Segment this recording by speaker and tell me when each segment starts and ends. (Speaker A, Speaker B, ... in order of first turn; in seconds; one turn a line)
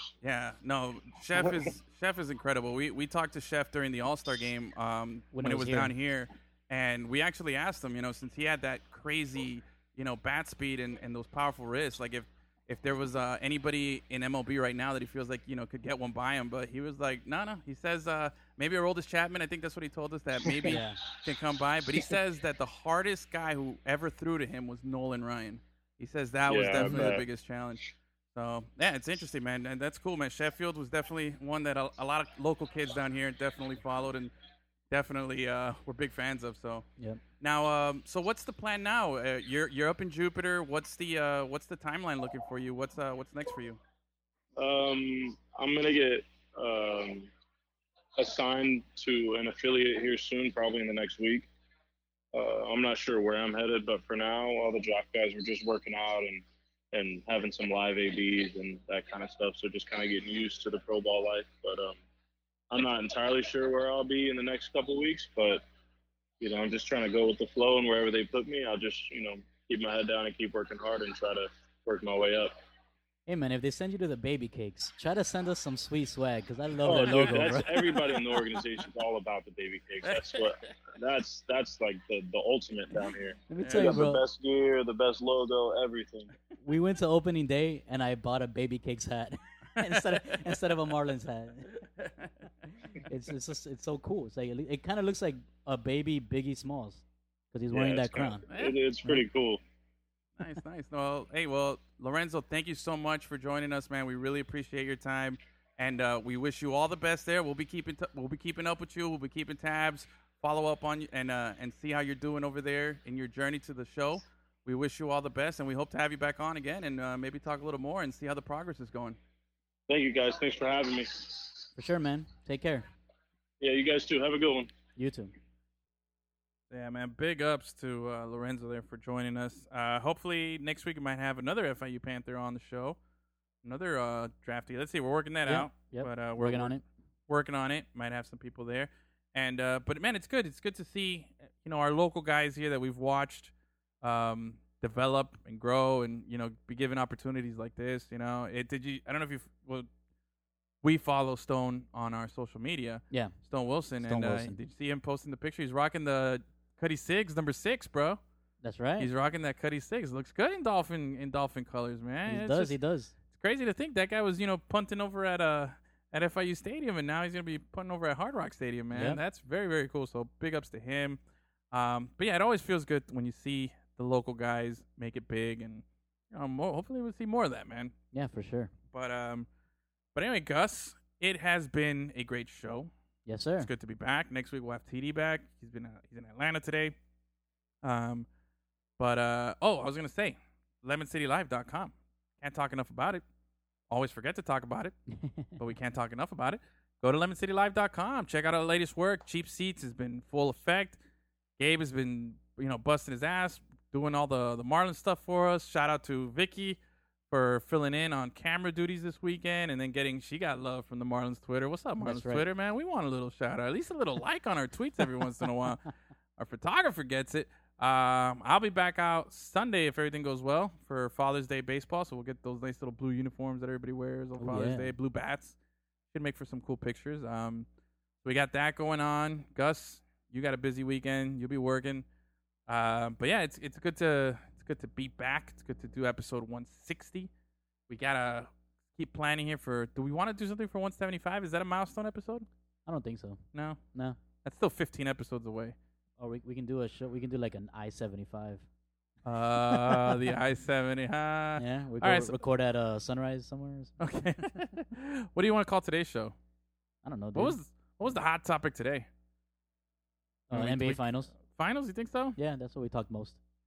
Speaker A: 0.2-34.3
Speaker B: 1.4-1.7
Speaker C: 5.3-5.9
Speaker C: 20.7-21.0
Speaker B: 26.5-27.2
Speaker C: 26.8-27.1
Speaker A: 34.9-36.9
Speaker A: 37.4-43.8
Speaker B: 44.6-47.3
Speaker B: 48.1-51.5
Speaker B: 52.3-62.0
Speaker B: 62.7-65.6
Speaker B: 66.4-72.5
Speaker C: 73.3-77.8
Speaker B: 76.8-86.3
Speaker A: 80.1-80.5
Speaker C: 83.5-84.2
Speaker A: 83.6-83.9
Speaker C: 86.6-91.7
Speaker A: 89.9-90.6
Speaker A: 92.0-92.3
Speaker C: 93.0-98.4
Speaker B: 97.7-99.6
Speaker A: 98.5-98.8
Speaker A: 100.4-119.2
Speaker B: 119.9-121.5
Speaker C: 121.8-122.9
Speaker B: 123.6-124.7
Speaker C: 124.9-125.3
Speaker A: 126.7-133.0
Speaker A: 133.6-136.7
Speaker C: 135.4-136.8
Speaker A: 137.3-149.9
Speaker A: 150.8-158.2
Speaker C: 154.0-154.6
Speaker C: 158.6-159.1
Speaker A: 159.0-162.8
Speaker C: 162.3-163.1
Speaker A: 163.3-171.2
Speaker C: 168.9-169.2
Speaker A: 171.7-177.9
Speaker C: 178.1-178.7
Speaker A: 178.9-179.5
Speaker A: 180.1-182.9
Speaker C: 183.3-183.7
Speaker A: 183.6-186.9
Speaker A: 187.8-188.3
Speaker A: 189.0-193.2
Speaker A: 193.9-194.9
Speaker C: 195.1-195.5
Speaker A: 195.6-201.0
Speaker A: 201.6-206.8
Speaker A: 207.3-225.5
Speaker C: 212.0-212.4
Speaker C: 224.4-224.9
Speaker A: 226.1-227.7
Speaker A: 228.2-232.1
Speaker A: 232.7-237.3
Speaker A: 237.9-242.4
Speaker C: 242.9-243.4
Speaker A: 243.5-243.8
Speaker A: 244.4-245.8
Speaker C: 246.2-248.7
Speaker A: 249.2-252.4
Speaker C: 249.7-250.2
Speaker C: 251.6-253.9
Speaker A: 254.0-256.4
Speaker C: 257.0-257.6
Speaker A: 257.3-259.1
Speaker C: 260.5-261.3
Speaker A: 260.5-262.4
Speaker C: 262.4-263.4